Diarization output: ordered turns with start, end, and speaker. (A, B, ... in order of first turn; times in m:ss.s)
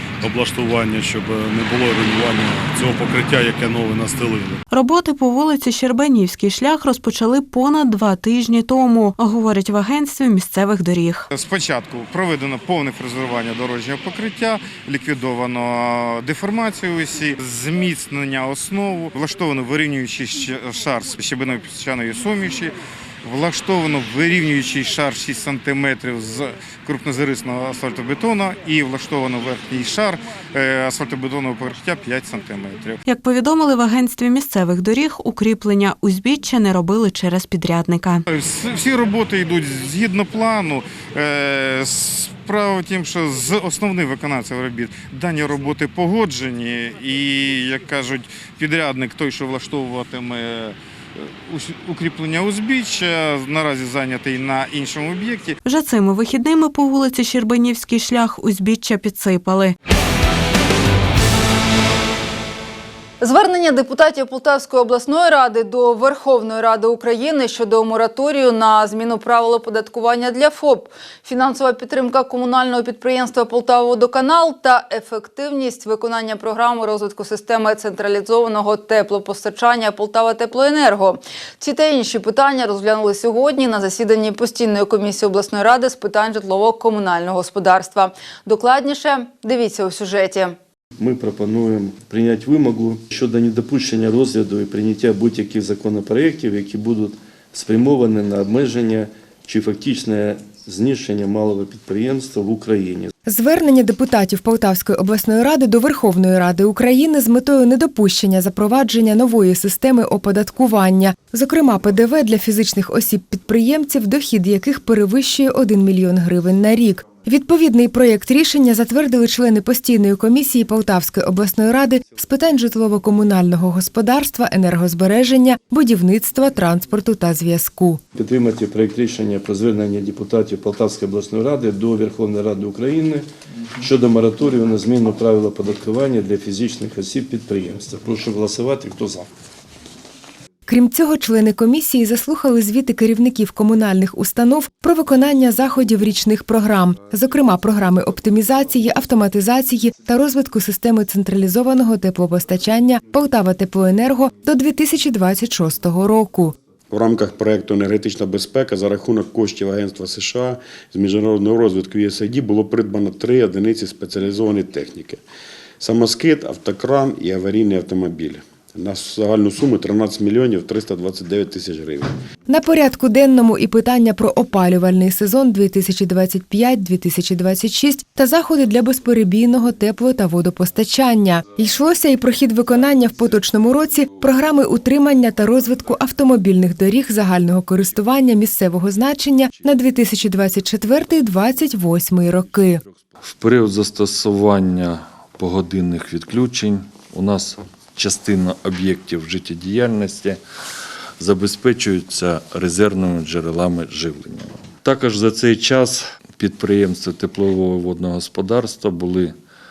0:00.3-0:02.2 A
0:02.8-0:04.5 A
0:04.7-0:11.3 B
0:11.3-0:33.0 C
0:33.1-0:38.2 B
0:38.3-0:55.6 C
0:55.6-0:59.8 B
1:03.2-1:30.6 D
1:31.0-1:43.1 E
1:43.3-2:08.0 F
2:08.1-2:13.3 E
2:13.8-2:19.3 E
2:20.7-2:36.6 F
2:36.9-2:45.2 G
2:45.8-2:52.2 G
2:52.5-3:12.8 F
3:13.2-3:20.4 H
3:21.2-3:29.4 H